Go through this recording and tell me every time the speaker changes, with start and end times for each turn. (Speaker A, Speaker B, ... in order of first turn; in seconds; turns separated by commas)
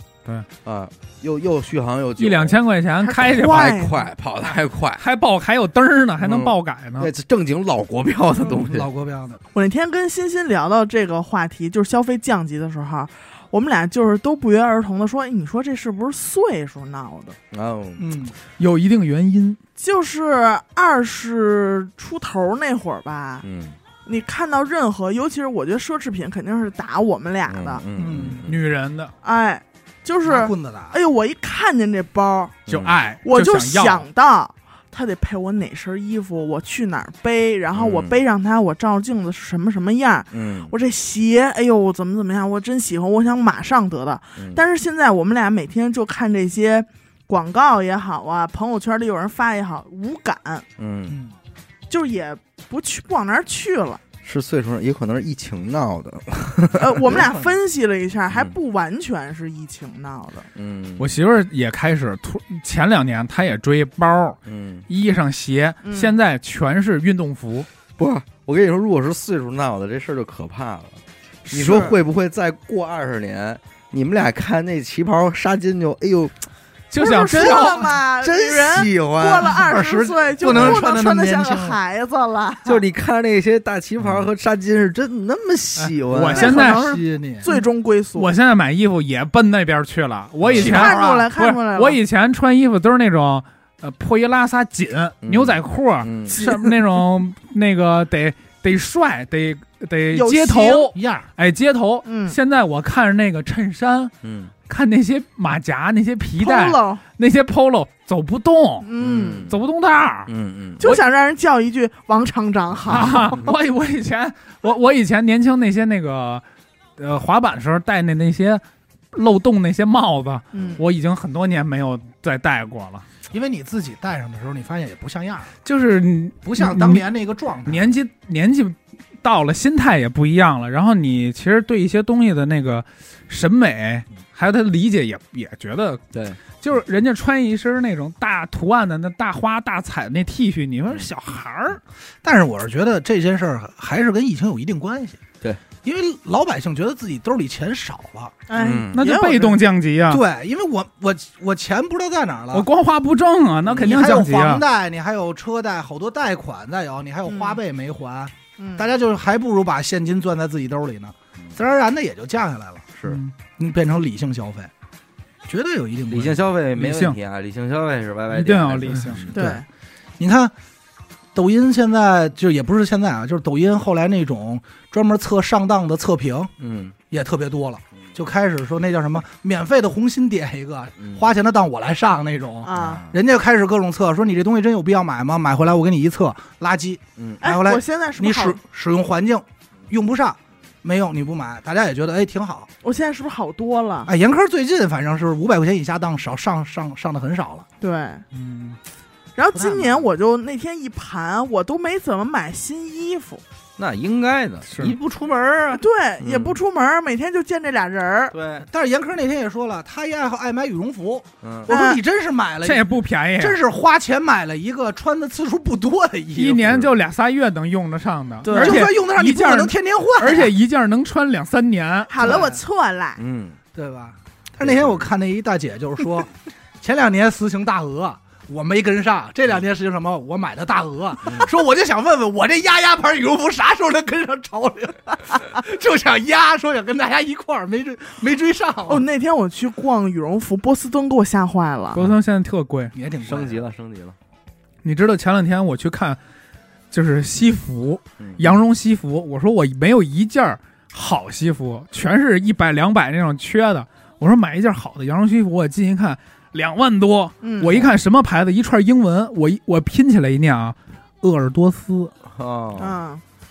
Speaker A: 0.6-2.6, Speaker B: 2.2-3.7, Speaker C: 3.0-4.1, Speaker A: 3.3-5.0, Speaker B: 5.0-7.1, Speaker A: 6.2-8.9, Speaker D: 8.4-9.4, Speaker C: 9.5-17.4, Speaker A: 17.5-18.1, Speaker D: 18.0-18.3, Speaker B: 18.6-19.6, Speaker C: 19.8-23.4, Speaker A: 23.4-23.8, Speaker C: 24.1-27.8, Speaker A: 27.5-28.6, Speaker D: 27.9-28.5, Speaker B: 28.4-29.1, Speaker C: 29.2-32.6, Speaker D: 30.2-31.0, Speaker A: 32.7-33.0, Speaker B: 32.7-34.1, Speaker C: 33.2-50.6, Speaker A: 37.7-38.2, Speaker A: 40.3-40.7, Speaker A: 50.8-51.2, Speaker D: 51.1-51.3, Speaker C: 51.9-54.0, Speaker A: 54.2-57.2, Speaker C: 56.7-60.5, Speaker A: 60.5-61.2, Speaker B: 61.0-67.7, Speaker A: 64.5-64.9, Speaker C: 65.8-66.1, Speaker A: 68.0-76.4, Speaker B: 76.9-77.9, Speaker C: 77.0-82.8, Speaker A: 78.2-79.6, Speaker D: 79.5-81.8, Speaker A: 80.4-80.8, Speaker A: 82.6-86.6, Speaker B: 85.8-86.8, Speaker D: 86.2-87.5, Speaker C: 86.3-88.3, Speaker B: 88.1-104.1, Speaker A: 90.4-90.8, Speaker D: 90.5-91.2, Speaker C: 90.5-92.0, Speaker A: 95.2-96.6, Speaker C: 100.1-100.9, Speaker D: 100.9-101.3, Speaker C: 102.0-102.3, Speaker A: 104.2-104.5, Speaker B: 104.7-108.9, Speaker C: 106.4-107.0, Speaker C: 108.8-109.5, Speaker A: 109.0-109.6, Speaker B: 109.5-110.3, Speaker A: 110.3-110.9, Speaker C: 110.8-113.5, Speaker B: 112.9-116.4, Speaker B: 117.0-123.0, Speaker C: 120.5-120.8, Speaker D: 123.3-125.5, Speaker B: 125.6-127.0, Speaker D: 126.4-127.9, Speaker B: 127.7-136.0, Speaker A: 136.1-136.4, Speaker B: 136.6-141.8, Speaker D: 142.2-145.2, Speaker D: 145.8-148.4, Speaker C: 148.5-149.7, Speaker A: 148.5-149.0, Speaker B: 148.9-150.2, Speaker D: 150.1-152.7, Speaker B: 152.5-154.6, Speaker D: 153.7-162.8, Speaker C: 157.3-157.6, Speaker C: 158.6-158.9, Speaker A: 162.9-163.2, Speaker B: 163.0-163.3, Speaker D: 163.6-164.7, Speaker D: 165.4-166.4, Speaker A: 166.1-169.6, Speaker B: 166.7-167.2, Speaker B: 168.3-169.2, Speaker C: 169.3-169.6, Speaker D: 170.2-170.5, Speaker D: 171.3-176.5, Speaker A: 176.6-176.9, Speaker D: 177.1-192.7, Speaker C: 182.6-183.0, Speaker A: 182.7-183.2, Speaker C: 187.4-188.6, Speaker C: 192.8-194.1, Speaker D: 194.1-197.7, Speaker C: 197.8-198.2, Speaker B: 198.3-198.8, Speaker C: 199.3-203.4, Speaker D: 199.5-200.0, Speaker A: 203.8-206.6, Speaker B: 204.7-204.9, Speaker C: 205.7-208.3, Speaker A: 208.3-208.7, Speaker D: 208.6-216.8, Speaker A: 211.4-211.7, Speaker C: 211.7-212.0, Speaker B: 212.6-213.6, Speaker B: 216.3-222.1, Speaker A: 216.7-216.9, Speaker C: 218.4-218.9, Speaker D: 218.5-220.5, Speaker C: 222.1-223.2, Speaker D: 222.2-222.6, Speaker A: 223.2-223.6, Speaker D: 223.7-239.1, Speaker A: 224.6-225.0, Speaker C: 238.9-242.0, Speaker B: 241.9-242.9, Speaker D: 242.9-243.6, Speaker A: 243.2-244.2, Speaker B: 244.8-246.2, Speaker B: 246.9-262.1, Speaker A: 248.2-248.6, Speaker C: 257.4-257.9, Speaker A: 262.3-262.9, Speaker C: 262.8-263.2